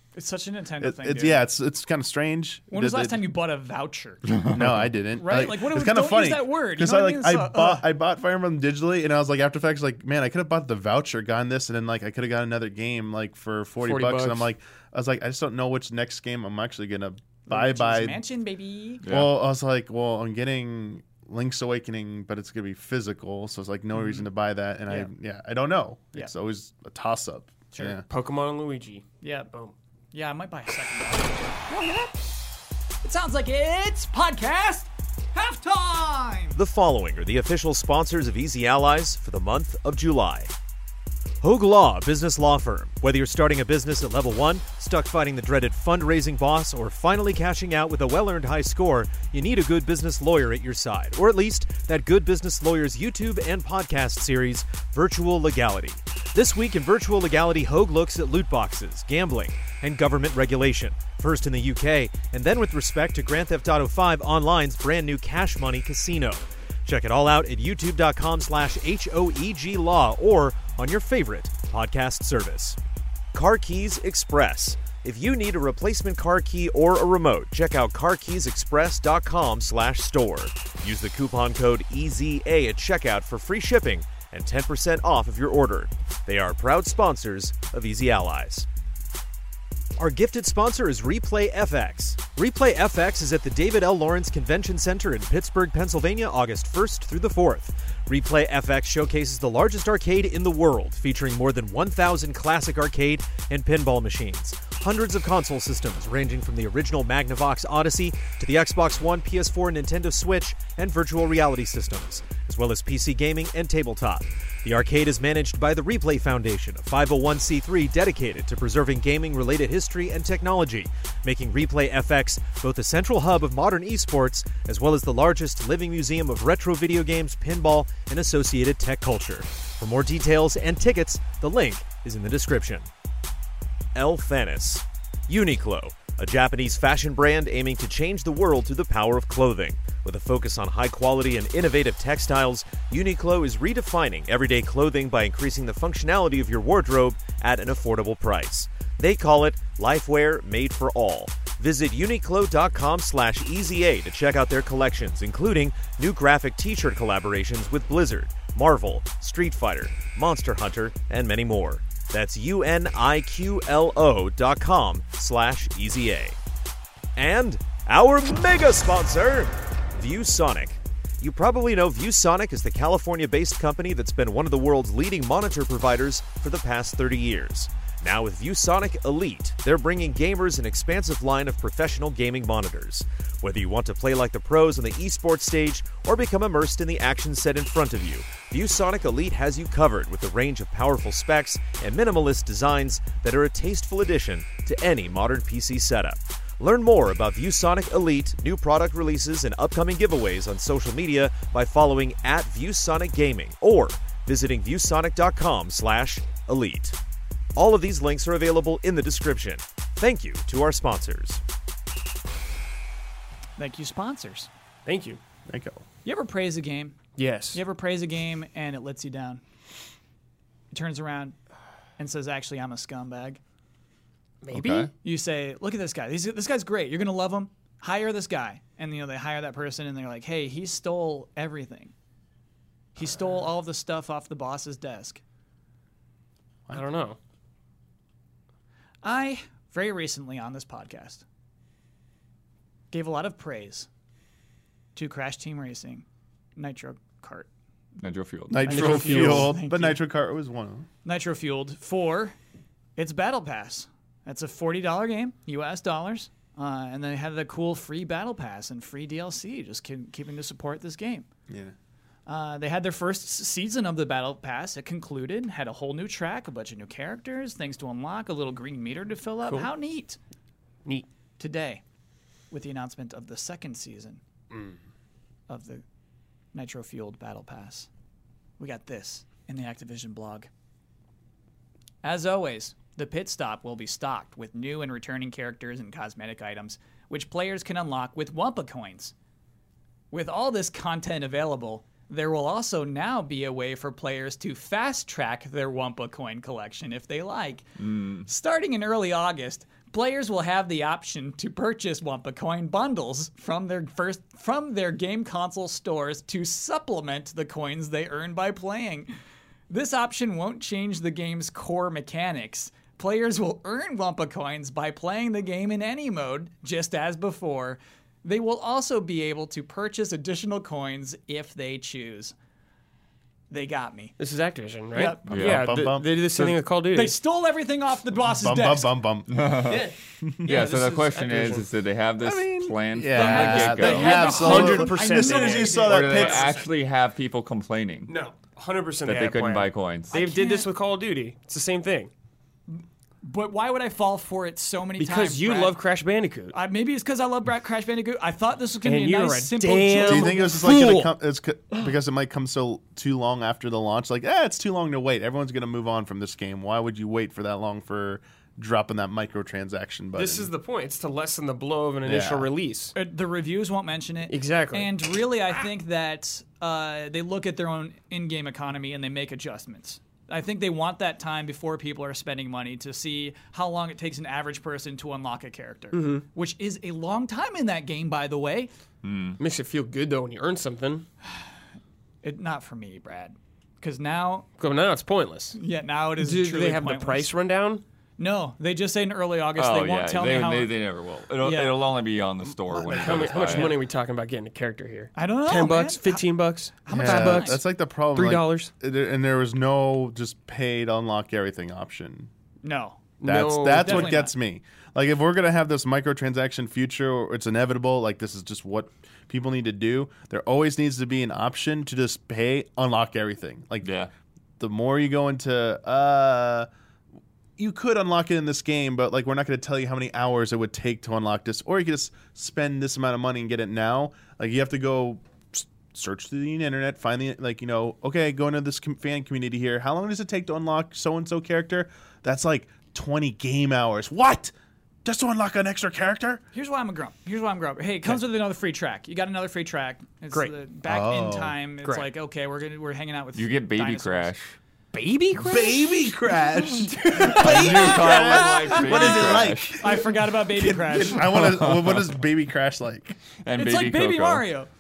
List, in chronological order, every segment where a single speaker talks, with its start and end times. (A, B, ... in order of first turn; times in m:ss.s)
0:00.2-0:01.4 A
0:00.8-0:03.2 B
0:02.7-0:04.4 A
0:04.5-0:18.2 B
0:05.2-0:07.9 A
0:13.8-0:14.5 C
0:17.5-0:19.0 A
0:19.0-0:19.3 D
0:19.1-0:28.0 B
0:23.9-0:24.3 A
0:27.7-0:28.0 A
0:28.1-0:29.8 C
0:29.2-0:29.5 A
0:30.1-0:32.0 A
0:33.0-0:36.6 A
0:36.6-0:40.5 E
0:41.4-1:12.8 E
1:13.3-1:28.7 E
1:30.0-2:12.9 E
2:14.0-2:46.4 E
2:47.2-3:27.0 E
3:27.6-3:31.4 E
3:33.6-3:34.5 A
3:34.9-3:35.2 C
3:35.5-3:35.8 B
3:36.0-3:37.0 A
3:37.2-3:37.6 C
3:37.5-3:39.4 A
3:40.7-3:41.4 A
3:42.0-3:43.4 A
3:44.4-3:44.9 C
3:44.5-3:44.9 D
3:45.0-3:51.9 A
3:53.0-3:55.2 A
3:56.7-3:57.2 C
3:59.0-4:01.2 A
4:02.9-4:03.9 A
4:05.0-4:06.0 A
4:06.6-4:07.5 A
4:08.0-4:09.0 D
4:08.5-4:10.9 B
4:08.7-4:09.5 C
4:08.7-4:10.0 A
4:11.0-4:12.4 A
4:13.0-4:21.3 A
4:21.5-4:21.7 B
4:22.3-4:30.2 A
4:29.4-4:29.7 C
4:31.4-4:31.8 A
4:32.5-4:34.2 A
4:34.5-4:34.8 C
4:35.5-4:35.8 A
4:36.5-4:37.9 A
4:38.6-4:40.5 A
4:42.0-4:49.1 A
4:50.1-4:57.7 A
4:57.8-4:58.3 D
4:58.3-5:09.1 A
5:09.7-5:22.4 A
5:23.5-5:24.2 A
5:24.2-5:27.2 C
5:24.9-5:25.3 A
5:25.3-5:25.8 D
5:25.4-5:26.1 B
5:26.3-5:26.6 D
5:26.9-5:28.9 A
5:28.3-5:29.4 B
5:29.3-5:29.9 D
5:29.6-5:31.7 C
5:30.2-5:30.5 B
5:30.4-5:34.4 D
5:32.2-5:36.5 B
5:33.1-5:36.0 A
5:33.4-5:36.7 C
5:35.9-5:38.1 D
5:38.1-5:42.1 C
5:39.0-5:40.1 D
5:40.1-5:40.7 A
5:42.7-5:45.8 A
5:45.0-5:46.6 C
5:46.5-5:50.6 A
5:48.8-5:51.1 C
5:50.1-6:00.5 B
6:00.2-6:02.9 C
6:02.0-6:02.5 B
6:03.0-6:18.7 A
6:04.3-6:04.9 C
6:15.9-6:16.2 C
6:19.0-6:19.4 D
6:19.4-6:21.1 C
6:22.2-6:24.5 A
6:24.6-6:25.6 C
6:25.5-6:27.3 A
6:26.2-6:27.8 C
6:28.2-6:30.7 A
6:29.6-6:33.8 D
6:31.4-6:31.8 A
6:32.7-6:38.7 C
6:33.4-6:33.7 A
6:35.2-6:37.6 A
6:36.9-6:42.3 B
6:42.6-6:43.0 A
6:43.2-6:44.2 C
6:43.2-6:53.9 B
6:43.7-6:44.3 A
6:53.8-6:54.1 D
6:54.6-6:56.7 B
6:57.6-7:14.5 B
7:15.0-7:16.4 B
7:16.5-7:24.3 A
7:20.8-7:21.6 B
7:21.8-7:22.1 C
7:23.4-7:24.6 D
7:24.9-7:26.0 C
7:25.4-7:33.2 B
7:27.1-7:29.8 D
7:27.6-7:31.3 A
7:31.2-7:32.2 D
7:33.4-7:34.5 D
7:33.6-7:34.7 A